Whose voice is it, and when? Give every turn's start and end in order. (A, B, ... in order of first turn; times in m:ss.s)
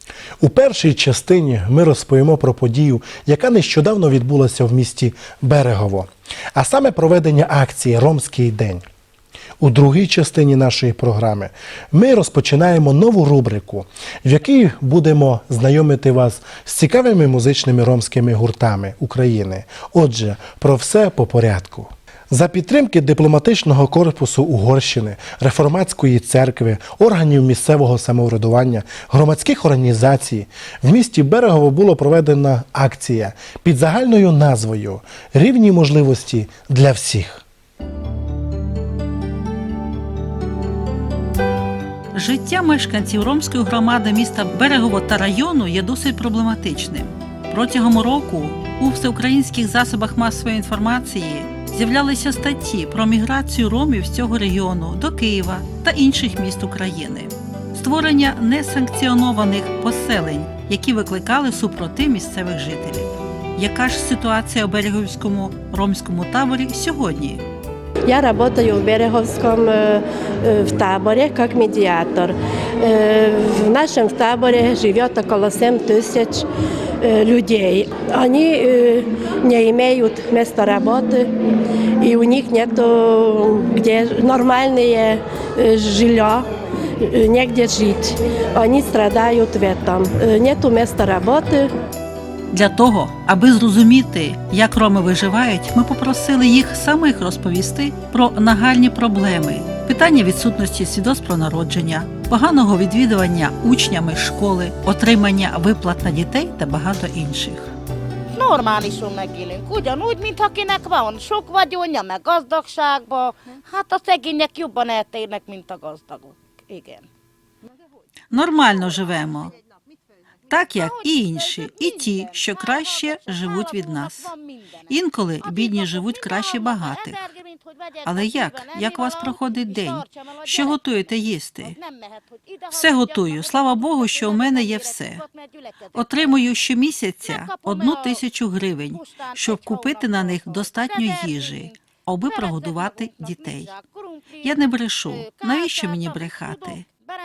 0:00.4-0:08.8 A
0:09.6-0:37.4 A
0:42.1-1:07.4 B
1:08.1-1:16.4 C
1:17.0-1:21.3 C
1:22.0-1:26.4 C
1:27.0-1:31.7 C
1:32.5-1:47.7 B
1:48.4-1:57.0 D
1:58.3-1:59.5 B
2:00.5-2:04.3 B
2:01.6-2:04.4 D
2:04.9-2:07.3 B
2:05.5-2:07.4 D
2:08.0-2:11.8 B
2:08.0-2:10.7 D
2:11.8-2:15.3 D
2:12.7-2:15.2 B
2:15.9-2:23.7 B
2:17.4-2:17.9 D
2:19.0-2:20.9 D
2:22.7-2:24.0 D
2:24.4-2:26.8 B
2:25.2-2:26.0 D